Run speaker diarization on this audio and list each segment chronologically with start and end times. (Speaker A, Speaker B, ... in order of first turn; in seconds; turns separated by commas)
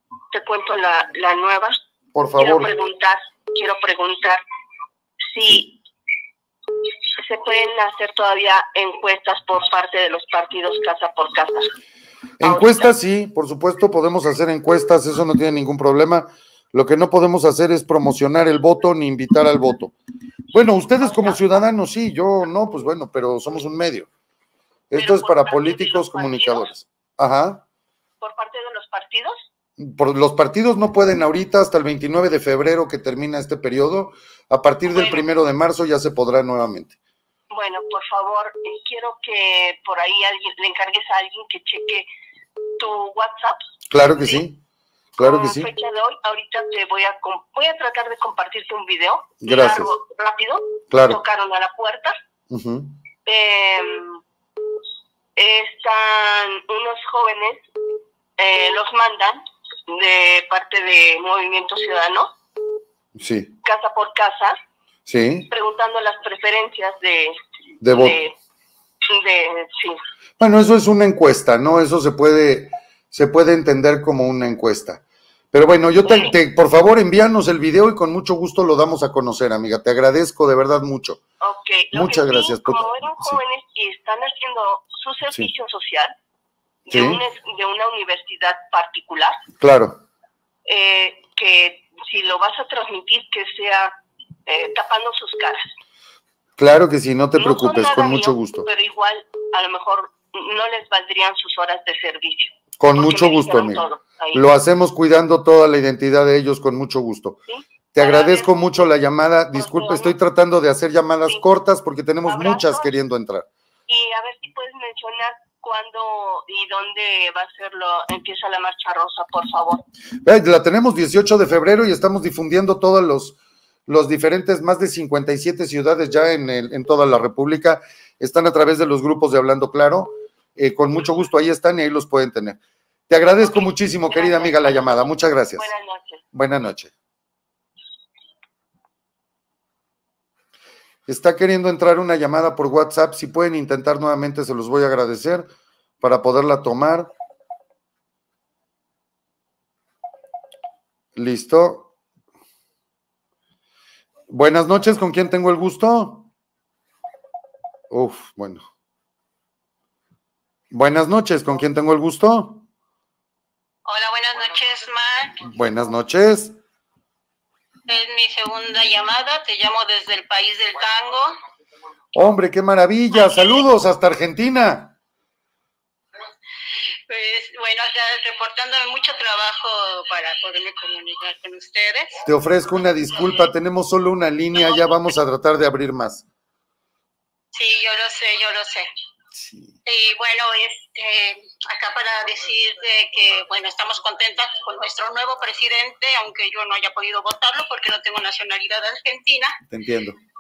Speaker A: 0.3-1.8, Speaker B: 2.1-2.7, Speaker A: 2.4-4.4, Speaker A: 5.3-5.7, Speaker A: 7.2-11.7, Speaker B: 12.4-19.9, Speaker A: 12.4-12.9, Speaker B: 20.5-24.1, Speaker A: 21.0-21.4, Speaker B: 24.9-27.6, Speaker A: 24.9-26.7, Speaker A: 28.2-29.5, Speaker B: 29.8-37.0, Speaker A: 35.0-35.2, Speaker A: 37.5-42.1, Speaker A: 42.8-43.6, Speaker B: 43.9-44.6, Speaker B: 45.2-45.7, Speaker A: 45.2-52.1, Speaker B: 49.4-49.9, Speaker B: 50.9-51.2, Speaker B: 52.5-53.0, Speaker A: 53.3-54.2, Speaker A: 55.4-57.6, Speaker A: 58.4-62.3, Speaker B: 63.2-63.5, Speaker A: 63.6-64.6, Speaker B: 65.1-65.5, Speaker A: 65.5-67.4, Speaker B: 67.8-68.2, Speaker A: 67.9-68.3, Speaker A: 69.1-70.0, Speaker B: 70.4-75.0, Speaker B: 75.5-81.2, Speaker A: 76.0-76.3, Speaker A: 81.4-86.1, Speaker B: 81.9-83.4, Speaker A: 86.9-89.4, Speaker B: 86.9-87.2, Speaker B: 89.6-90.0, Speaker A: 90.7-95.6, Speaker B: 96.6-98.7, Speaker A: 97.4-104.5, Speaker B: 102.8-107.4, Speaker A: 107.5-108.5, Speaker B: 107.9-113.5, Speaker A: 109.5-110.2, Speaker A: 112.3-112.9, Speaker A: 113.9-119.8, Speaker B: 120.2-132.6, Speaker B: 133.1-135.7, Speaker A: 133.4-136.2, Speaker B: 136.3-136.9, Speaker B: 141.1-145.5, Speaker B: 146.0-147.1, Speaker B: 151.2-151.9, Speaker B: 154.3-156.3, Speaker B: 157.9-158.6, Speaker B: 160.7-162.6, Speaker C: 163.8-165.4, Speaker B: 165.4-166.6, Speaker C: 167.9-171.3, Speaker B: 172.2-174.9, Speaker C: 177.1-182.2, Speaker B: 182.2-186.2, Speaker C: 187.5-188.9, Speaker B: 189.3-189.8, Speaker C: 189.8-199.6, Speaker B: 199.7-200.2